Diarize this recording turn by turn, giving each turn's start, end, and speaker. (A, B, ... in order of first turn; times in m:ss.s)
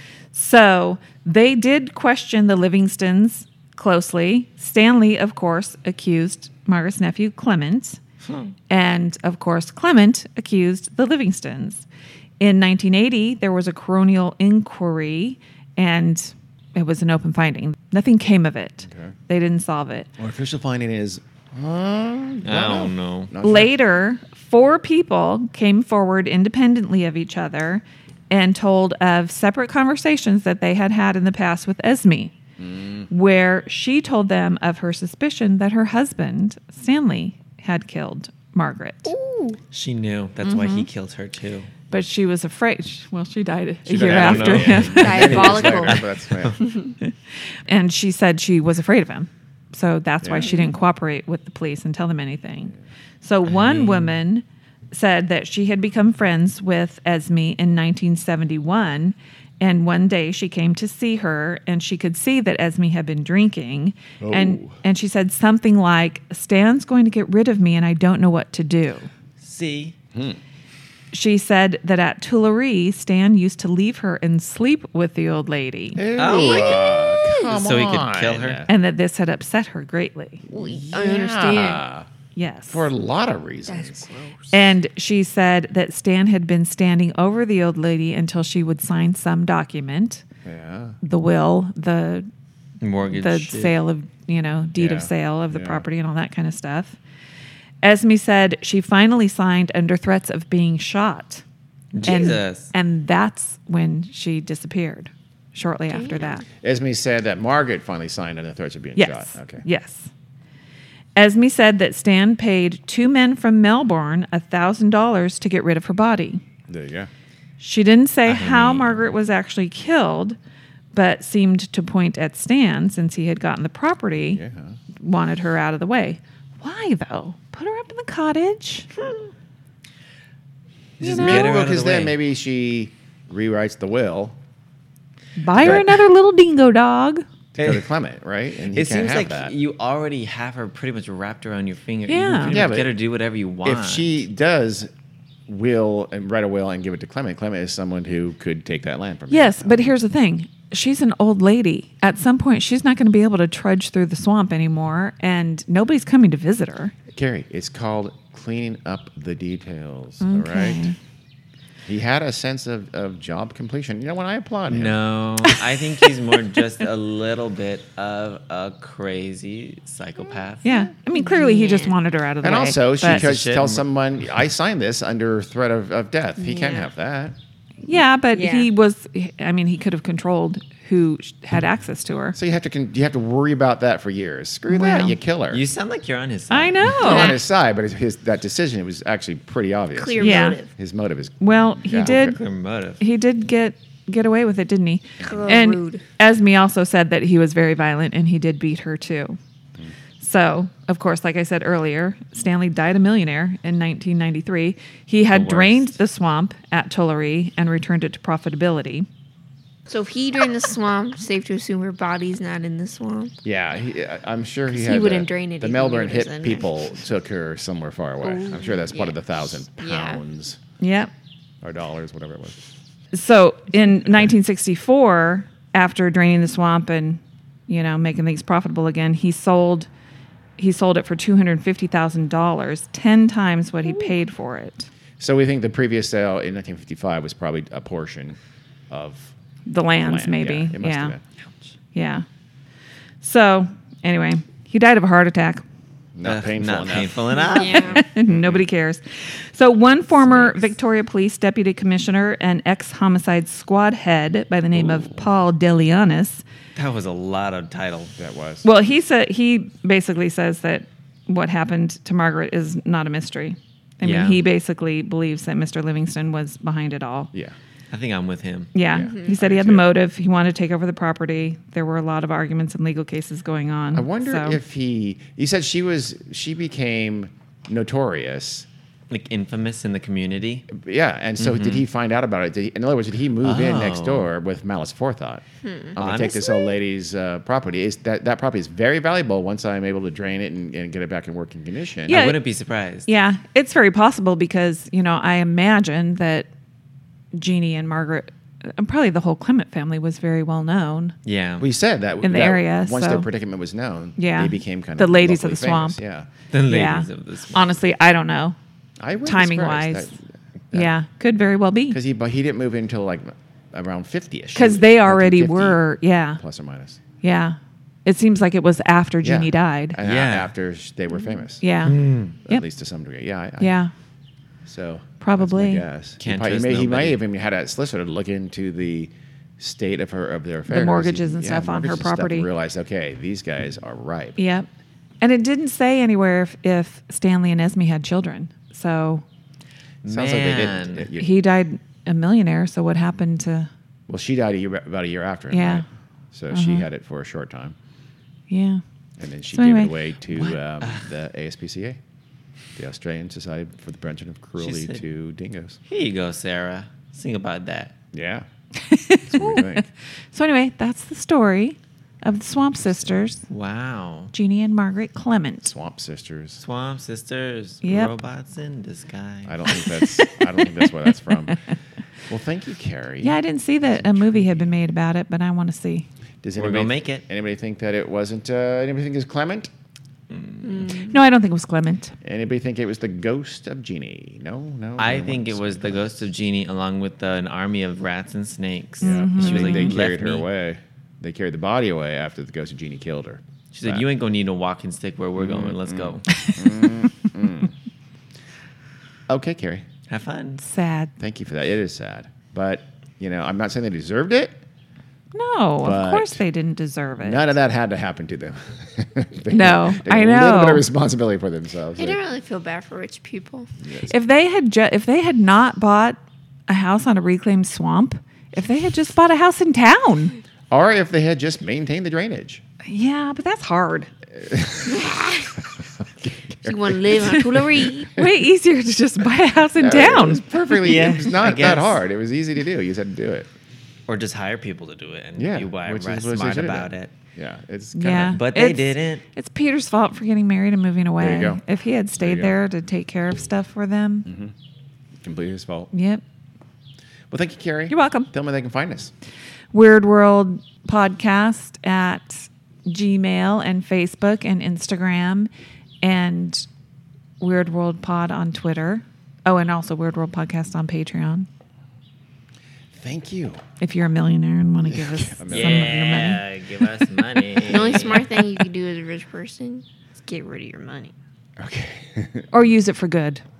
0:00.3-0:08.0 A
0:08.2-0:08.5 B
0:08.7-0:11.8 A
0:12.4-0:20.1 A
0:18.8-0:19.1 C
0:20.2-0:23.7 C
0:22.4-0:23.3 B
0:23.4-0:32.3 A
0:32.6-0:33.1 C
0:33.1-0:39.1 A
0:39.0-0:39.6 D
0:39.7-0:41.7 B
0:40.4-0:40.9 A
0:41.9-0:45.4 A
0:43.9-0:46.6 B
0:43.9-0:46.6 C
0:44.9-0:46.0 D
0:46.6-0:46.9 D
0:47.7-1:09.1 A
0:50.2-0:50.5 C
0:50.4-0:50.7 D
0:53.5-0:54.1 B
1:04.2-1:04.8 C
1:09.4-1:09.9 B
1:10.1-1:10.4 C
1:11.1-1:16.0 A
1:15.9-1:18.7 C
1:16.2-1:17.4 D
1:16.2-1:18.7 B
1:18.7-1:20.4 A
1:20.5-1:21.8 D
1:20.5-1:22.1 C
1:22.3-1:22.9 A
1:22.7-1:24.1 C
1:23.6-1:24.6 D
1:24.5-1:30.2 A
1:30.4-1:31.0 C
1:31.0-1:32.3 A
1:32.8-1:33.7 B
1:33.1-1:37.0 A
1:34.8-1:35.8 C
1:37.8-1:41.4 A
1:41.9-1:42.7 B
1:42.0-1:46.4 A
1:45.9-1:46.4 D
1:46.6-1:49.6 C
1:49.0-1:50.1 A
1:51.2-1:56.4 A
1:56.7-1:57.1 C
1:57.6-2:00.4 A
1:58.3-1:59.1 B
2:00.9-2:04.4 A
2:04.3-2:04.8 C
2:05.0-2:08.9 A
2:11.0-2:12.2 B
2:11.0-2:14.4 C
2:11.0-2:11.5 A
2:15.4-2:17.2 A
2:15.6-2:15.9 B
2:15.6-2:15.9 C
2:17.5-2:19.5 C
2:17.6-2:17.8 B
2:18.7-2:24.2 B
2:22.1-2:22.6 A
2:22.5-2:23.0 C
2:23.6-2:24.9 C
2:25.5-2:29.9 C
2:29.3-2:36.9 A
2:37.1-2:40.9 C
2:40.2-2:41.0 A
2:41.8-2:45.0 C
2:44.7-2:50.7 B
2:50.6-2:53.2 A
2:51.1-2:52.0 D
2:52.4-2:57.4 C
2:53.0-2:53.8 B
2:56.4-2:56.9 D
2:57.8-3:02.4 A
2:58.3-2:58.7 D
3:02.4-3:05.6 C
3:04.7-3:05.2 A
3:05.5-3:07.0 B
3:06.5-3:07.4 A
3:07.0-3:12.4 C
3:07.0-3:07.4 D
3:09.9-3:10.7 D
3:10.2-3:10.6 A
3:11.4-3:12.4 A
3:12.1-3:13.0 B
3:13.0-3:19.4 A
3:15.2-3:15.5 C
3:15.2-3:16.0 D
3:20.2-3:29.1 A
3:25.3-3:26.0 B
3:29.9-3:33.3 D
3:33.4-3:40.6 C
3:34.7-3:36.7 D
3:38.2-3:39.2 D
3:39.7-3:40.2 D
3:40.8-3:41.1 A
3:41.6-3:42.6 C
3:43.1-3:49.9 A
3:50.6-3:54.9 A
3:55.2-3:58.4 C
3:58.9-3:59.3 C
3:59.6-4:01.2 A
4:00.0-4:01.2 C
4:01.9-4:02.2 A
4:03.2-4:05.6 A
4:06.1-4:08.6 C
4:06.2-4:08.0 B
4:07.3-4:08.0 D
4:07.9-4:16.4 A
4:10.2-4:10.7 C
4:16.7-4:18.1 B
4:18.2-4:18.7 C
4:18.6-4:27.3 A
4:24.0-4:24.4 B
4:27.9-4:28.7 B
4:28.7-4:34.6 A
4:28.9-4:29.9 C
4:28.9-4:29.4 D
4:33.9-4:38.7 C
4:39.1-4:40.7 B
4:40.7-4:52.2 C
4:41.4-4:41.8 B
4:43.4-4:44.3 B
4:45.6-4:46.0 D
4:46.0-4:46.7 B
4:52.1-4:52.4 A
4:52.1-4:53.1 B
4:53.0-4:56.5 A
4:57.3-5:01.1 A
5:01.2-5:01.7 B
5:01.6-5:06.3 C
5:02.2-5:03.3 A
5:04.2-5:06.0 A
5:06.5-5:07.8 B
5:06.6-5:08.6 A
5:09.0-5:10.2 C
5:09.2-5:10.1 A
5:10.7-5:12.0 A
5:11.9-5:15.8 C
5:14.5-5:16.4 A
5:16.4-5:17.0 C
5:17.2-5:20.0 A
5:19.2-5:21.6 C
5:20.0-5:20.5 B
5:21.1-5:21.4 D
5:21.6-5:22.6 A
5:21.8-5:22.4 B
5:22.4-5:23.7 C
5:23.6-5:23.9 A
5:24.6-5:34.4 C
5:25.2-5:25.8 A
5:26.2-5:27.2 B
5:30.7-5:32.5 A
5:34.4-5:34.7 A
5:35.2-5:39.2 A
5:40.0-5:41.1 B
5:40.0-5:41.4 C
5:41.2-5:43.7 A
5:44.1-5:47.8 C
5:45.5-5:45.8 A
5:46.5-5:46.8 A
5:48.5-5:48.8 A
5:49.2-5:52.0 C
5:49.5-5:49.9 A
5:50.3-5:51.1 B
5:52.8-5:55.8 C
5:54.6-5:55.0 B
5:55.9-5:58.0 B
5:58.1-5:58.4 C
5:58.8-6:03.4 A
5:59.3-5:59.8 C
6:03.5-6:04.3 B
6:04.3-6:05.7 A
6:05.6-6:06.6 C
6:06.6-6:09.7 B
6:07.8-6:08.1 A
6:09.4-6:11.6 C
6:10.0-6:10.8 A
6:12.3-6:14.6 C
6:13.2-6:16.0 A
6:16.4-6:19.7 C
6:16.6-6:17.2 B
6:20.3-6:20.9 B
6:20.6-6:21.2 D
6:21.1-6:22.1 A
6:22.2-6:26.1 C
6:25.0-6:30.4 B
6:29.0-6:34.0 C
6:29.0-6:30.0 A
6:33.7-6:36.3 B
6:35.4-6:37.7 C
6:36.3-6:36.9 A
6:39.3-6:39.8 C
6:40.1-6:40.6 B
6:40.6-6:41.1 A
6:41.2-6:44.6 C
6:45.3-6:47.4 A
6:45.8-6:46.4 C
6:47.2-6:52.2 C
6:49.5-6:50.8 A
6:52.0-6:53.7 D
6:53.8-6:54.1 C
6:54.1-7:00.4 A
7:00.7-7:02.6 C
7:02.8-7:04.1 A
7:04.3-7:08.3 C
7:05.0-7:05.6 D
7:06.6-7:08.1 D
7:08.0-7:10.4 A
7:09.8-7:13.5 C
7:10.7-7:12.0 B
7:14.1-7:17.1 B
7:15.4-7:18.4 C
7:17.9-7:24.2 A
7:18.3-7:19.2 B
7:21.2-7:21.6 C
7:22.2-7:22.5 C
7:24.2-7:24.5 C
7:25.2-7:25.9 C
7:25.9-7:26.2 A
7:27.3-7:29.1 C
7:27.9-7:28.3 A
7:29.7-7:35.5 A
7:36.0-7:36.6 A
7:37.4-7:41.5 A
7:42.9-7:43.6 C
7:43.8-7:46.4 A
7:44.9-7:46.2 C
7:45.5-7:48.3 B
7:47.6-7:51.1 D
7:51.6-7:52.5 C
7:52.5-7:53.4 A